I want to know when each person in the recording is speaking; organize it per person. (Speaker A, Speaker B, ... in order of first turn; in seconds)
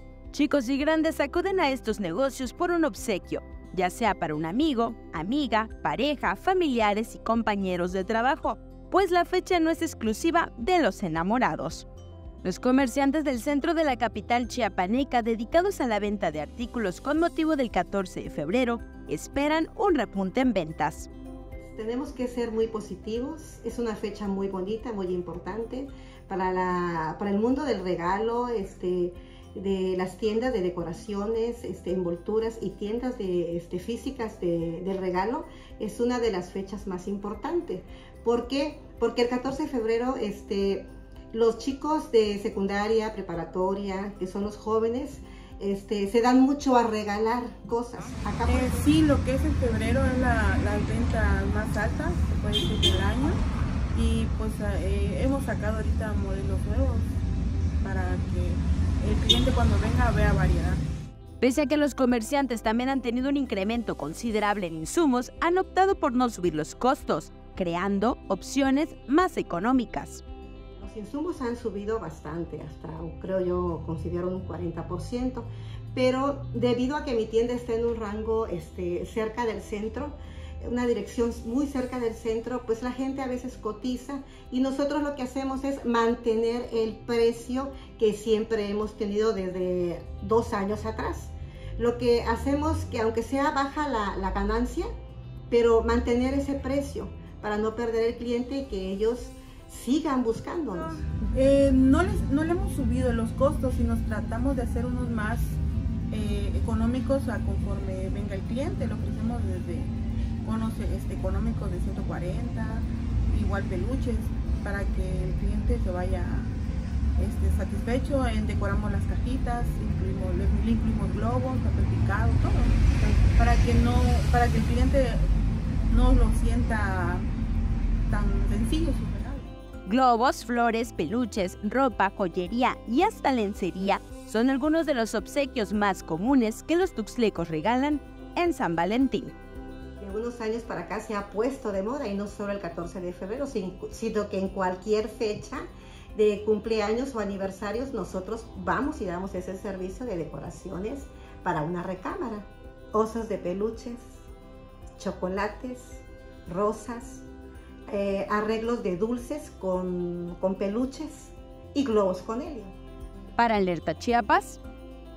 Speaker A: 0.3-11.9, 12.4-21.1, 61.4-70.2, 129.8-139.3, 163.3-164.6
Speaker B: 21.6-48.9, 70.8-94.9, 95.5-101.0, 140.0-154.2, 155.0-157.2, 157.9-162.7
Speaker C: 48.5-57.1, 57.8-60.8, 101.3-105.6, 106.1-109.9, 110.4-116.5, 117.2-122.8, 123.3-125.3, 125.9-127.3, 128.1-129.5